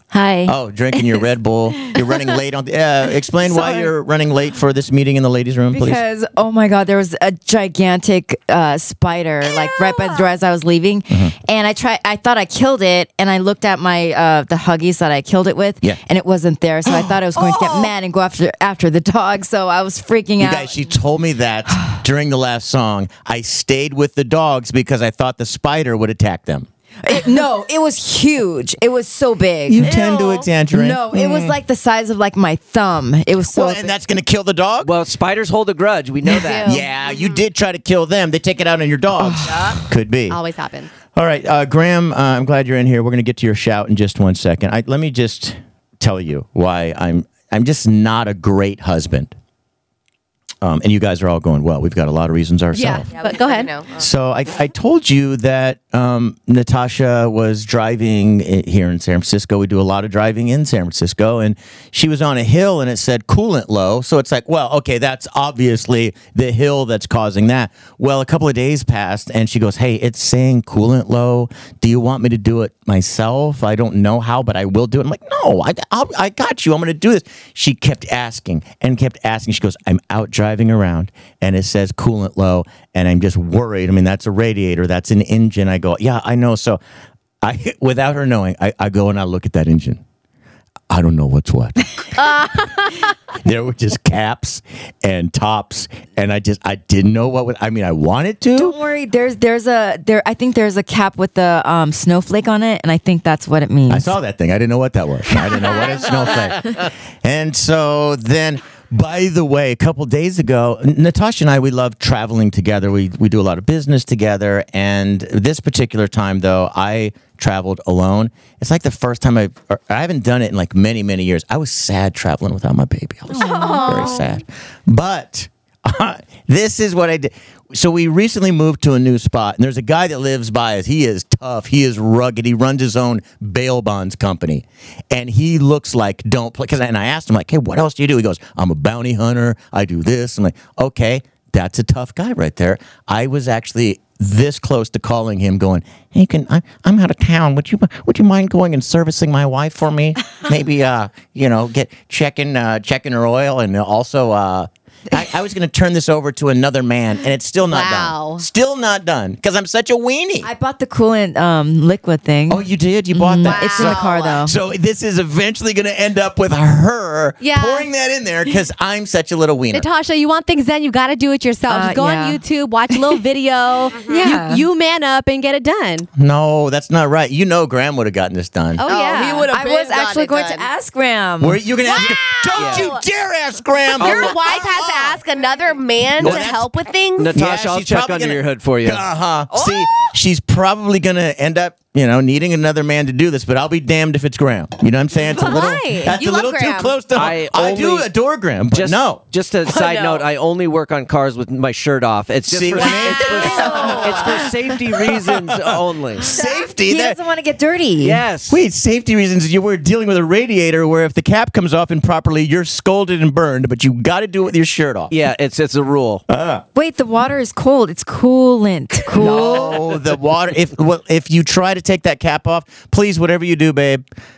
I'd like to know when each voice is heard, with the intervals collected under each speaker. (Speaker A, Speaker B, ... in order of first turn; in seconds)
Speaker A: 0.1-0.5, 3.4-3.9, 5.7-20.8, 27.0-34.0, 39.2-39.8, 98.5-104.2, 123.3-124.2, 160.4-164.5, 171.7-173.2, 174.1-174.6, 179.1-181.7, 203.3-204.2, 206.2-208.2, 216.7-219.8
Speaker B: 0.5-6.0, 16.9-17.9, 20.4-26.7, 29.7-31.6, 33.5-34.9, 36.6-40.4, 41.1-49.3, 50.6-53.1, 54.0-86.8, 87.4-90.0, 90.9-91.9, 93.4-98.8, 103.9-160.5, 162.5-169.9, 176.2-178.8, 181.4-185.2, 186.2-186.7, 187.2-199.2, 202.5-207.2, 208.5-215.2, 216.3-216.6, 219.1-224.0
Speaker C: 34.8-36.8, 182.6-182.9, 184.0-184.4, 187.2-189.1, 197.1-198.1, 198.7-206.3, 208.0-208.6, 215.1-216.2
Speaker D: 36.4-36.8, 40.3-40.9, 52.7-53.7, 92.4-92.9, 123.4-124.0, 157.6-158.4, 163.4-163.8, 167.4-167.9, 169.7-176.1, 178.8-179.3, 195.2-197.0, 199.7-200.2
Speaker E: 53.1-54.0, 163.8-164.4, 173.9-174.2, 178.8-180.7, 181.8-183.0, 184.0-187.3